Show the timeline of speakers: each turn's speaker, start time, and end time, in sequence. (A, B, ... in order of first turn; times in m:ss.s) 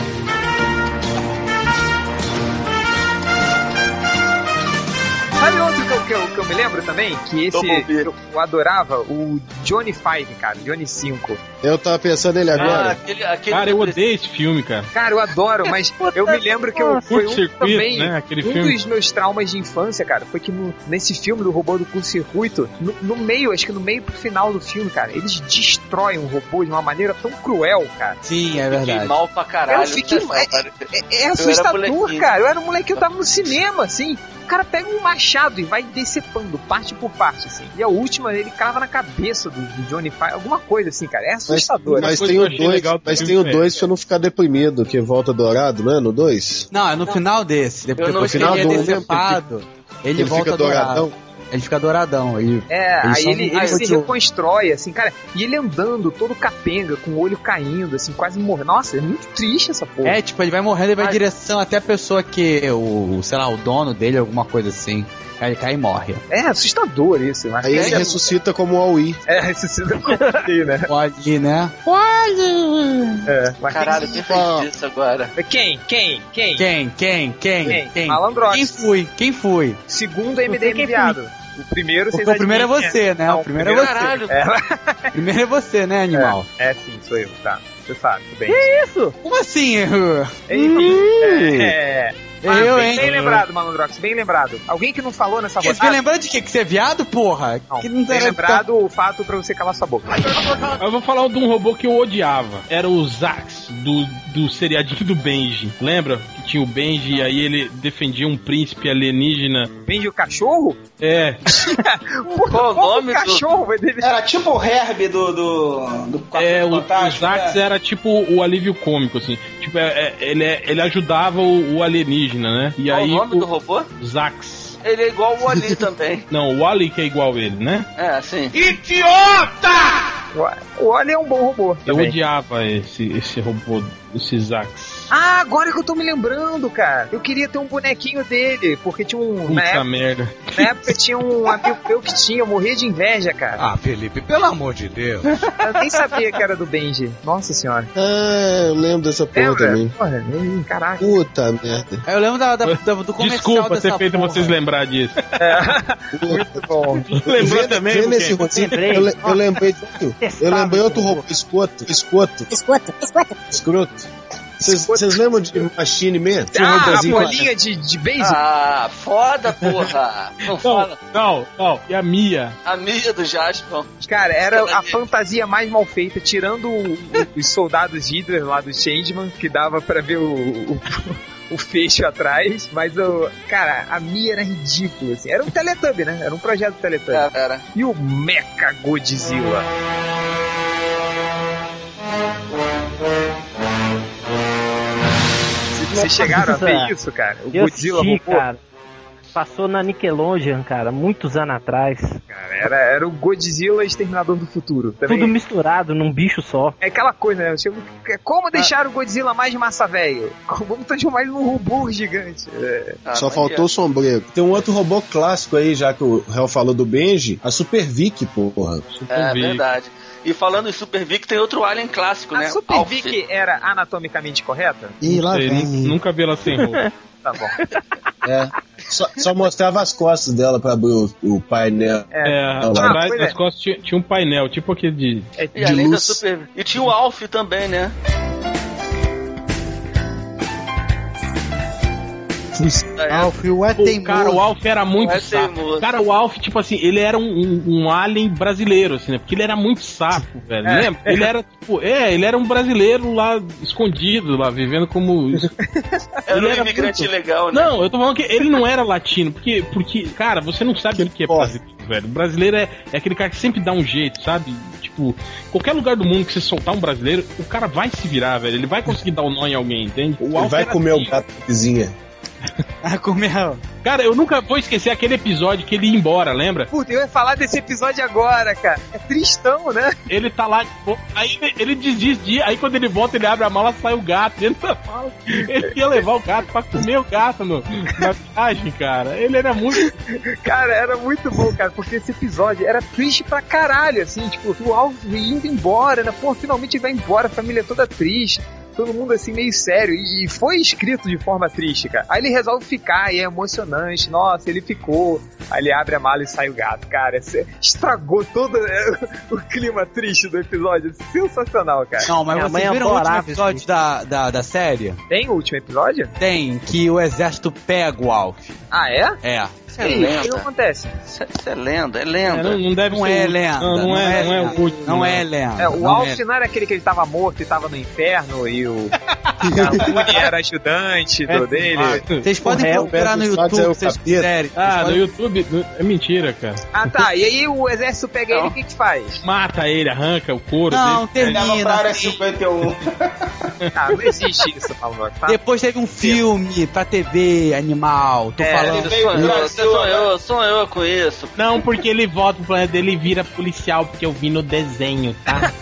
0:05.4-0:11.4 A
0:07.5-0:08.1 B
0:11.6-0:13.0 C
0:12.5-0:12.9 D
0:12.6-0:14.0 B
0:13.5-0:14.9 D
0:14.9-0:28.2 A
0:16.0-0:17.0 E
0:17.1-0:18.8 D
0:28.2-0:29.2 F
0:28.7-0:30.8 B
0:29.7-0:42.4 A
0:31.4-0:32.3 B
0:33.0-0:33.5 B
0:41.5-0:46.7 C
0:41.9-0:43.7 D
0:46.7-0:54.1 F
0:48.0-0:49.3 B
0:48.2-0:49.4 C
0:50.2-0:51.1 C
0:52.7-1:00.2 A
0:53.5-0:53.8 B
1:00.0-1:06.2 F
1:06.3-1:08.3 A
1:07.6-1:09.2 C
1:07.7-1:08.2 B
1:09.3-1:10.9 A
1:10.9-1:11.8 F
1:11.9-1:13.0 C
1:13.3-1:14.2 A
1:13.7-1:15.3 B
1:14.1-1:14.7 C
1:15.4-1:16.7 A
1:16.6-1:19.8 F
1:17.6-1:18.8 A
1:19.9-1:25.2 A
1:20.5-1:21.2 E
1:22.1-1:24.2 F
1:23.6-1:24.3 B
1:25.1-1:26.5 F
1:26.1-1:28.7 A
1:28.5-1:29.2 E
1:29.2-1:31.8 F
1:30.5-1:36.0 A
1:32.4-1:33.4 F
1:35.6-1:38.6 F
1:37.7-1:40.5 A
1:40.8-1:49.7 D
1:49.8-1:50.8 A
1:51.0-1:51.4 D
1:51.5-1:54.1 A
1:52.5-1:53.4 B
1:54.0-1:57.6 G
1:56.4-2:04.8 D
2:02.9-2:03.9 B
2:04.8-2:06.3 B
2:06.3-2:07.9 D
2:08.0-2:08.6 B
2:08.5-2:10.1 H
2:10.3-2:12.2 A
2:11.9-2:15.1 D
2:15.1-2:19.8 A
2:19.5-2:20.7 D
2:20.6-2:23.6 A
2:23.6-2:25.4 H
2:25.6-2:27.9 A
2:28.0-2:30.0 C
2:29.3-2:31.2 A
2:31.0-2:32.0 C
2:32.1-2:34.6 F
2:32.6-2:35.3 D
2:35.4-2:37.1 A
2:36.1-2:42.6 C
2:37.1-2:38.8 D
2:38.4-2:39.5 E
2:40.2-2:41.2 E
2:43.5-2:47.5 C
2:44.7-2:45.2 A
2:46.5-2:48.4 A
2:48.2-2:51.0 B
2:50.5-2:52.6 D
2:52.6-2:53.9 B
2:54.0-3:09.7 A
2:54.5-2:55.0 B
3:07.1-3:07.6 B
3:15.8-3:18.4 A
3:15.9-3:16.9 E
3:17.5-3:18.6 E
3:19.3-3:22.2 E
3:22.3-3:25.3 A
3:25.1-3:26.8 E
3:26.8-3:33.0 A
3:33.1-3:33.7 B
3:33.1-3:38.8 C
3:38.9-3:39.6 D
3:39.1-3:43.2 B
3:42.3-3:45.0 A
3:45.0-3:45.9 C
3:45.2-3:46.8 D
3:45.2-3:45.7 F
3:46.6-3:46.9 E
3:47.2-3:47.6 A
3:48.2-3:53.0 C
3:52.1-3:53.4 A
3:52.2-3:55.3 D
3:55.4-3:55.9 A
3:55.6-3:58.0 B
3:55.6-3:56.2 C
4:03.0-4:03.3 B
4:03.1-4:04.4 F
4:03.8-4:15.5 D
4:05.0-4:05.9 B
4:10.6-4:11.3 A
4:15.6-4:16.0 A
4:16.3-4:17.7 B
4:16.3-4:31.2 D
4:20.9-4:21.6 C
4:30.2-4:32.0 C
4:32.8-4:33.6 F
4:33.8-4:36.7 D
4:36.7-4:40.0 A
4:40.1-4:50.0 D
4:49.8-5:12.1 A
5:12.0-5:15.0 F
5:12.3-5:13.6 E
5:15.1-5:16.1 A
5:16.2-5:18.6 F
5:18.7-5:19.2 A
5:19.2-5:19.7 F
5:19.8-5:20.5 B
5:19.8-5:21.0 A
5:21.1-5:22.6 B
5:22.3-5:25.3 D
5:22.9-5:26.2 F
5:25.6-5:32.0 A
5:31.3-5:32.3 D
5:32.2-5:35.0 F
5:32.4-5:34.3 C
5:32.4-5:32.9 E
5:34.6-5:36.7 D
5:36.7-5:39.2 A
5:38.3-5:38.6 B
5:39.2-5:41.4 D
5:40.7-5:42.2 F
5:41.2-5:43.3 G
5:43.8-5:45.4 A
5:45.3-5:49.3 F
5:48.4-5:48.8 A
5:48.7-5:50.1 G
5:48.7-5:51.3 B
5:51.4-5:55.5 D